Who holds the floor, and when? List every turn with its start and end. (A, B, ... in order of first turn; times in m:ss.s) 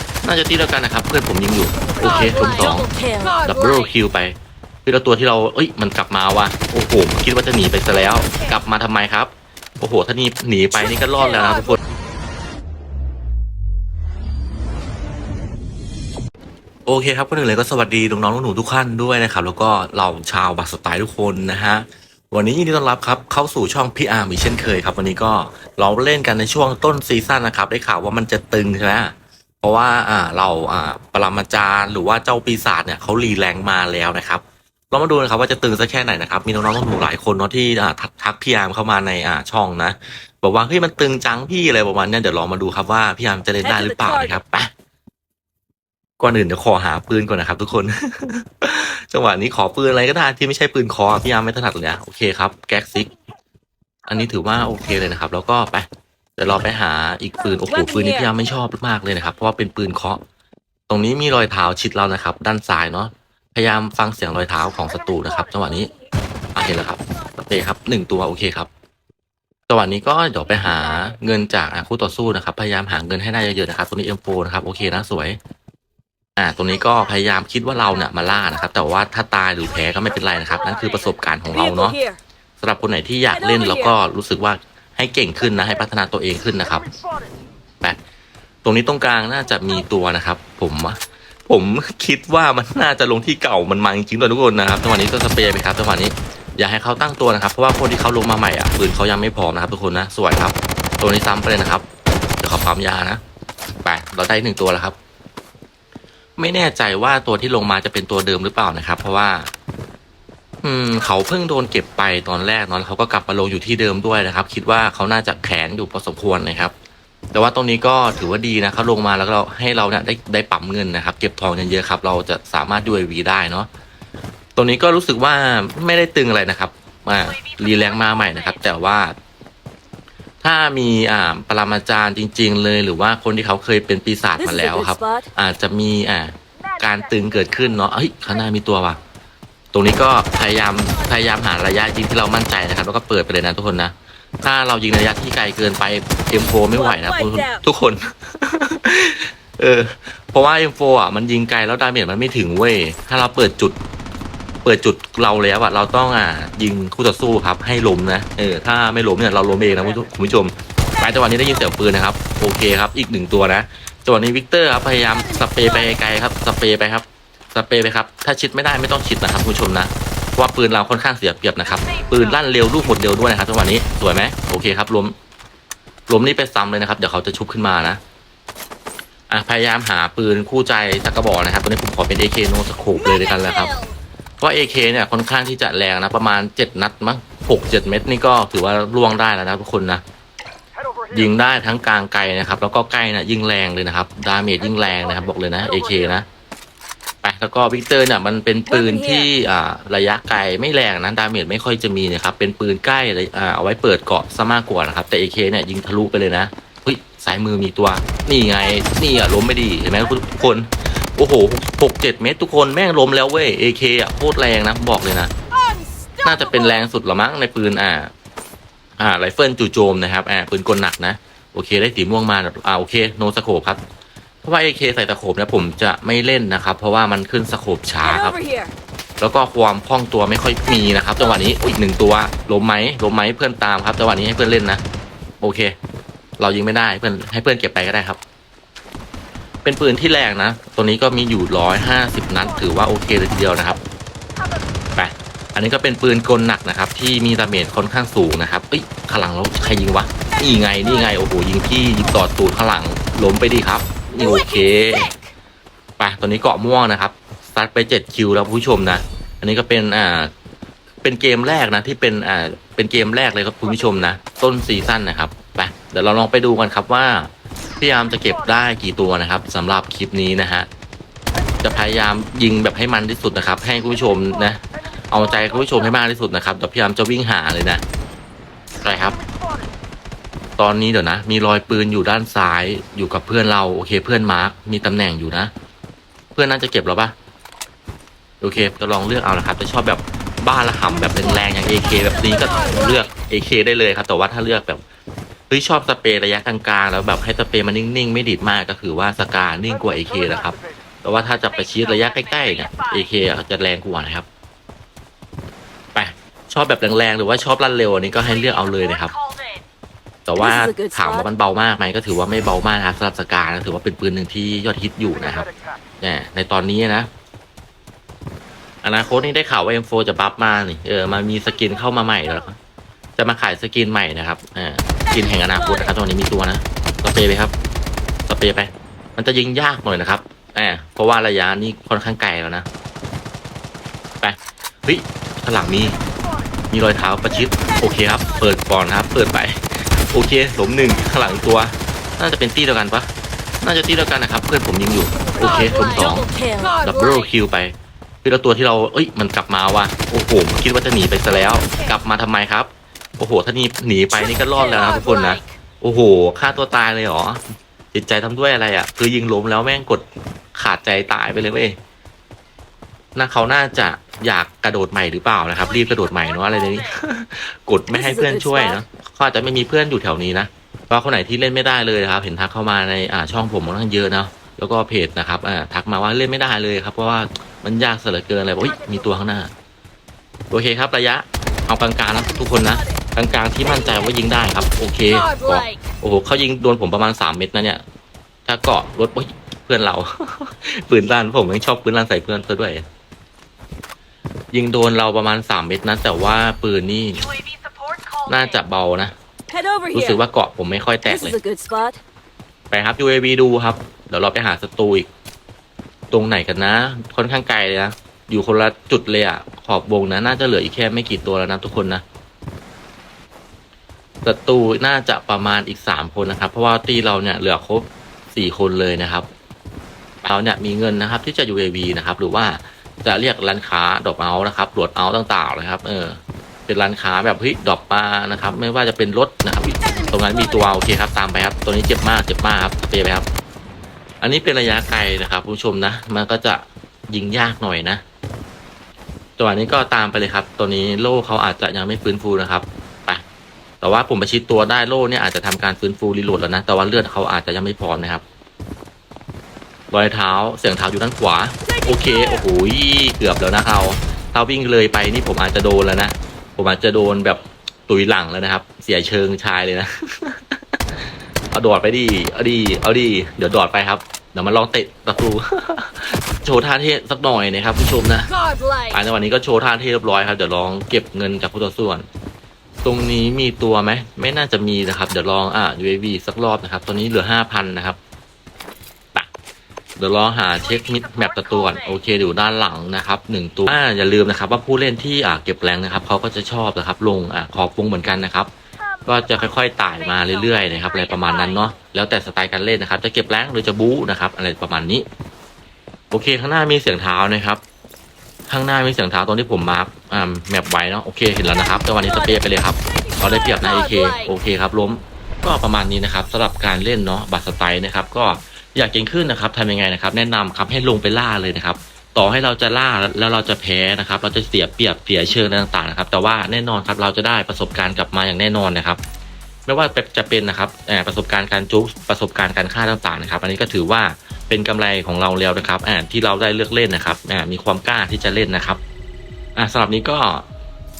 0:00.2-0:11.8 A
0:02.2-0:03.4 B
0:16.9-0:44.7 A
0:43.6-0:44.4 B
0:46.2-0:53.1 A
0:54.1-1:00.2 A
0:57.7-0:58.3 B
1:00.9-1:05.9 A
1:06.5-1:08.7 A
1:09.7-1:15.4 A
1:16.4-1:22.0 A
1:21.5-1:22.2 B
1:22.6-1:26.9 A
1:23.3-1:23.9 B
1:28.6-1:41.9 A
1:42.4-1:43.2 A
1:43.8-1:45.0 A
1:46.4-1:49.5 A
1:50.6-1:56.7 A
1:57.3-2:03.7 A
2:04.6-2:09.2 A
2:10.4-2:19.0 A
2:14.4-2:15.3 B
2:19.7-2:33.8 A
2:26.8-2:27.6 B
2:34.6-2:55.2 A
2:56.1-2:58.0 A
2:59.3-3:03.8 A
3:04.4-3:10.0 A
3:11.1-3:16.3 A
3:17.2-3:35.3 A
3:18.7-3:19.3 B
3:35.6-3:36.2 B
3:36.2-3:38.1 A
3:39.0-3:43.8 A
3:44.4-3:48.4 A
3:48.0-3:48.7 B
3:49.2-3:54.8 A
3:55.4-3:55.8 A
3:56.4-3:58.2 A
3:59.6-4:03.8 A
4:05.0-4:15.1 A
4:14.2-4:15.2 B
4:16.0-4:20.3 A
4:21.0-4:30.7 A
4:31.6-4:37.8 A
4:38.8-4:39.2 A
4:40.6-4:45.5 A
4:46.4-4:47.2 A
4:48.4-4:54.8 A
4:55.5-5:04.3 A
5:06.0-5:09.1 A
5:10.3-5:15.5 A
5:10.4-5:11.3 B
5:16.0-5:17.1 A
5:18.8-5:22.6 A
5:23.2-5:27.5 A
5:28.3-5:32.7 A
5:34.2-5:36.0 A
5:36.7-5:43.1 A
5:43.6-5:57.4 A
5:45.4-5:46.9 B
5:54.4-5:55.5 B
5:57.9-6:01.8 A
6:03.2-6:19.5 A
6:07.9-6:08.8 B
6:20.5-6:27.8 A
6:28.5-6:32.8 A
6:34.5-6:37.3 A
6:38.3-6:39.1 A
6:39.5-6:40.2 B
6:39.9-6:41.4 A
6:41.1-6:42.0 B
6:42.7-6:45.1 A
6:46.1-6:52.0 A
6:54.2-6:59.3 A
7:00.2-7:13.3 A
7:09.9-7:10.7 B
7:14.2-7:18.0 A
7:19.4-7:23.2 A
7:23.8-7:28.2 A
7:29.9-7:40.8 A
7:31.7-7:32.5 B
7:41.5-7:48.3 A
7:48.9-7:52.1 A
7:52.8-7:58.0 A
8:00.0-8:08.5 A
8:09.0-8:15.1 A
8:16.1-8:17.6 A
8:18.5-8:39.0 A
8:23.0-8:24.1 B
8:39.7-8:48.8 A
8:49.6-8:50.4 A